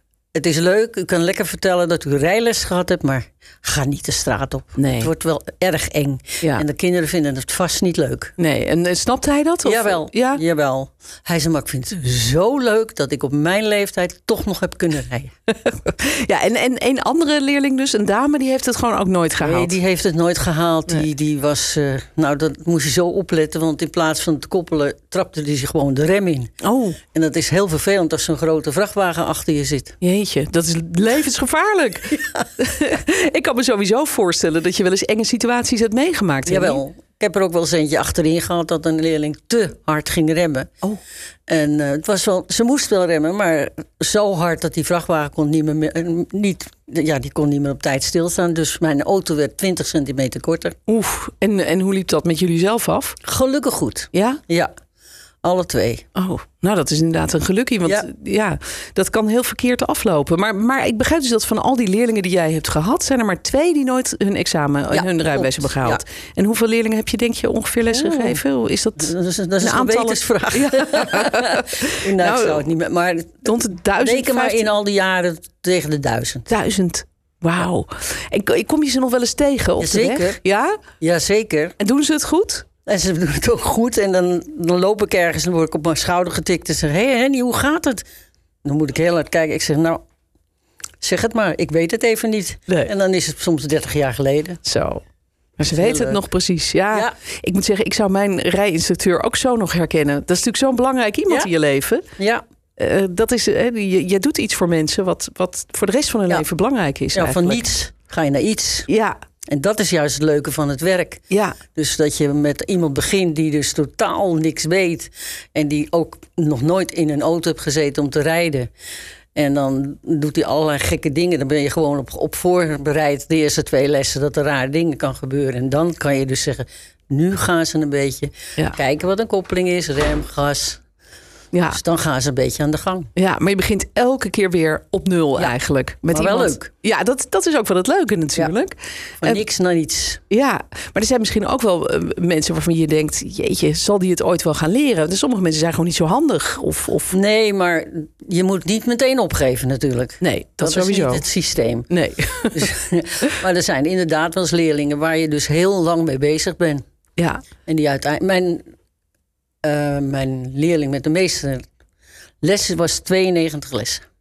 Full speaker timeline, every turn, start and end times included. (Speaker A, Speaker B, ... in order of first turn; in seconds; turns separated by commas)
Speaker A: 0.3-8.3, Speaker B: 4.8-5.1, Speaker B: 8.4-10.4, Speaker A: 9.6-15.3, Speaker B: 15.5-19.8, Speaker A: 19.4-26.5, Speaker B: 26.6-27.0, Speaker A: 27.1-29.9, Speaker B: 30.0-36.8, Speaker A: 36.5-40.7, Speaker A: 41.5-50.7, Speaker B: 50.9-53.2, Speaker A: 53.2-54.7, Speaker B: 54.1-54.4, Speaker A: 55.4-56.0, Speaker B: 56.1-72.7, Speaker A: 64.9-66.0, Speaker A: 67.9-68.4, Speaker A: 69.0-76.5, Speaker B: 73.4-74.7, Speaker B: 76.5-80.8, Speaker A: 79.8-80.4, Speaker A: 81.0-81.7, Speaker B: 81.8-82.6, Speaker A: 82.8-88.0, Speaker A: 88.6-90.0, Speaker A: 91.0-94.6, Speaker B: 94.6-95.0, Speaker B: 95.6-102.0, Speaker A: 95.7-96.2, Speaker B: 102.8-107.6, Speaker A: 107.1-108.9, Speaker B: 108.9-109.2, Speaker A: 109.5-111.2, Speaker B: 111.3-111.6, Speaker A: 111.7-118.7, Speaker A: 119.3-130.8, Speaker B: 131.5-131.8, Speaker A: 131.7-133.1, Speaker B: 133.1-139.4, Speaker A: 136.1-136.7, Speaker A: 139.2-140.2, Speaker B: 140.3-147.2, Speaker A: 147.1-151.9, Speaker B: 150.2-151.2, Speaker B: 151.9-152.7, Speaker A: 152.5-156.8, Speaker B: 157.2-157.4, Speaker A: 157.7-158.6, Speaker A: 159.6-161.6, Speaker A: 162.4-164.0